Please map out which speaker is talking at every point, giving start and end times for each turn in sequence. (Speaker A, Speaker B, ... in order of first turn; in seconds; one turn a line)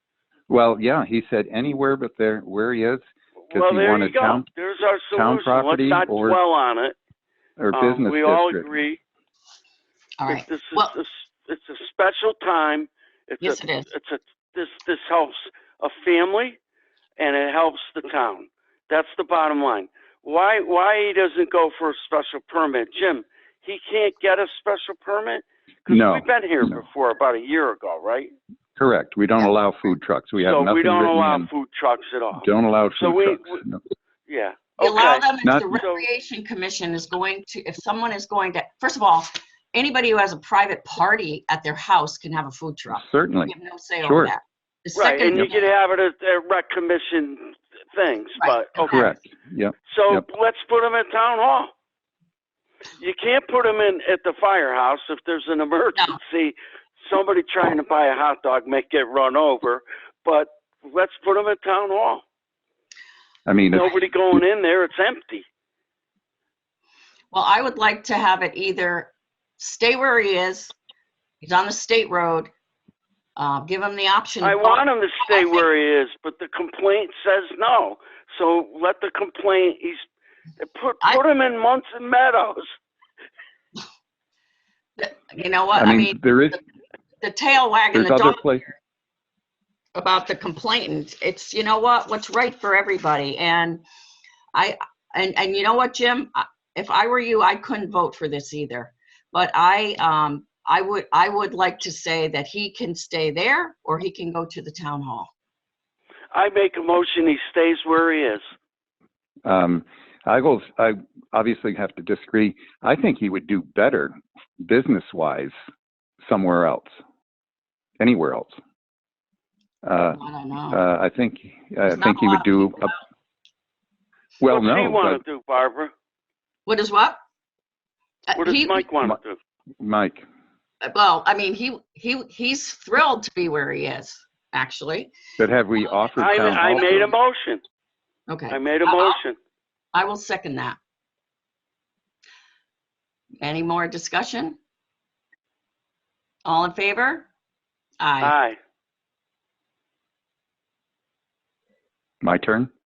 Speaker A: 0.5-4.5
Speaker B: 3.5-7.0
Speaker A: 5.1-6.4
Speaker A: 7.6-8.7
Speaker B: 7.7-9.0
Speaker C: 10.2-11.0
Speaker B: 10.3-16.6
Speaker C: 13.4-13.9
Speaker B: 17.2-28.3
Speaker A: 25.9-26.8
Speaker A: 28.8-31.5
Speaker B: 30.4-33.6
Speaker A: 32.3-33.8
Speaker B: 34.3-36.0
Speaker C: 34.8-45.7
Speaker A: 35.4-35.7
Speaker A: 43.0-44.3
Speaker B: 45.0-49.0
Speaker C: 48.4-49.1
Speaker A: 48.9-50.2
Speaker B: 49.9-51.7
Speaker B: 53.0-62.2
Speaker A: 63.5-64.1
Speaker B: 63.7-65.4
Speaker C: 67.3-70.7
Speaker C: 71.4-72.5
Speaker C: 73.4-75.7
Speaker B: 74.4-80.0
Speaker B: 80.6-82.7
Speaker C: 85.0-86.6
Speaker A: 85.8-86.6
Speaker C: 87.2-88.4
Speaker A: 87.9-88.7
Speaker C: 90.0-93.8
Speaker C: 94.5-105.3
Speaker B: 106.3-108.4
Speaker A: 109.5-115.5
Speaker A: 116.2-116.9
Speaker A: 118.0-118.5
Speaker A: 119.8-122.9
Speaker C: 120.1-120.8
Speaker C: 121.9-123.0
Speaker A: 124.4-125.2
Speaker B: 124.5-125.9
Speaker C: 126.7-127.2
Speaker C: 128.3-128.9
Speaker B: 128.4-129.4
Speaker A: 129.8-130.2
Speaker C: 130.8-135.1
Speaker A: 135.4-137.1
Speaker B: 136.2-137.6
Speaker C: 136.3-137.0
Speaker C: 138.3-139.2
Speaker B: 138.5-139.4
Speaker C: 139.9-140.8
Speaker C: 143.4-144.6
Speaker C: 146.4-147.3
Speaker C: 148.0-148.3
Speaker B: 148.2-148.6
Speaker A: 152.2-152.7